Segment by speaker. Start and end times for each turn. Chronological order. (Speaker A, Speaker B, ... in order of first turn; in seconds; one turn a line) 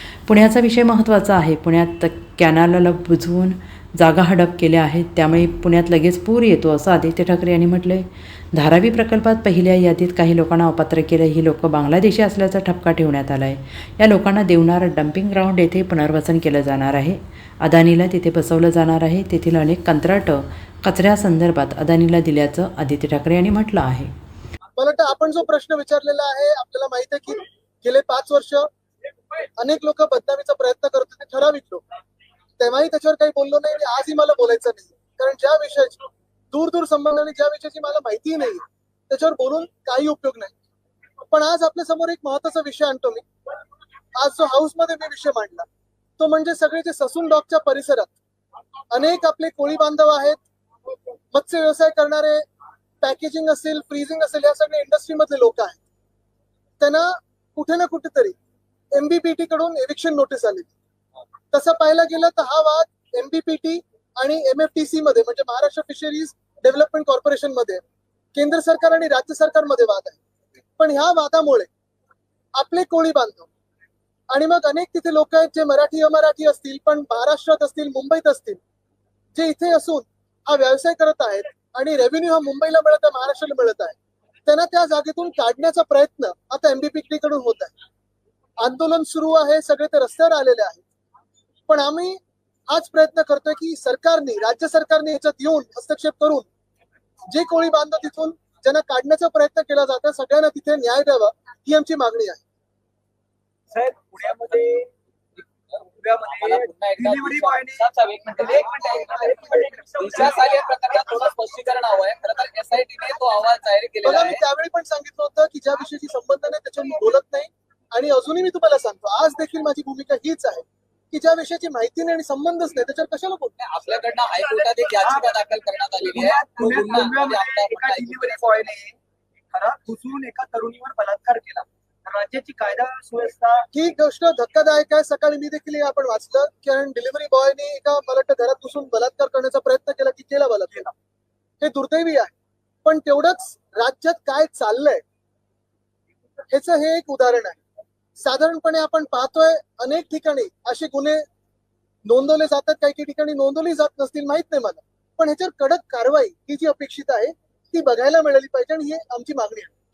Speaker A: 0.2-24.1
Speaker B: 24.8-28.7
Speaker B: 29.6-31.8
Speaker B: 32.6-36.0
Speaker B: 36.5-40.5
Speaker B: 41.3-43.2
Speaker B: 44.2-45.6
Speaker B: 46.2-48.2
Speaker B: 48.9-50.4
Speaker B: 51.3-52.4
Speaker B: 53.0-55.8
Speaker B: 56.8-58.3
Speaker B: 58.9-60.7
Speaker B: 61.5-67.8
Speaker B: 68.3-70.2
Speaker B: 70.8-71.7
Speaker B: 72.5-73.5
Speaker B: 74.3-78.6
Speaker B: 79.3-87.7
Speaker B: 88.6-90.8
Speaker B: 91.7-96.5
Speaker B: 97.3-102.4
Speaker C: 103.7-104.9
Speaker C: 106.0-107.9
Speaker D: 106.2-114.4
Speaker C: 108.4-111.2
Speaker B: 114.0-123.6
Speaker D: 123.6-128.7
Speaker C: 125.0-125.3
Speaker C: 126.0-129.0
Speaker C: 129.5-133.7
Speaker B: 133.7-140.9
Speaker B: 141.6-142.3
Speaker B: 142.8-145.0
Speaker B: 146.5-147.6
Speaker B: 148.2-151.2
Speaker B: 152.1-159.7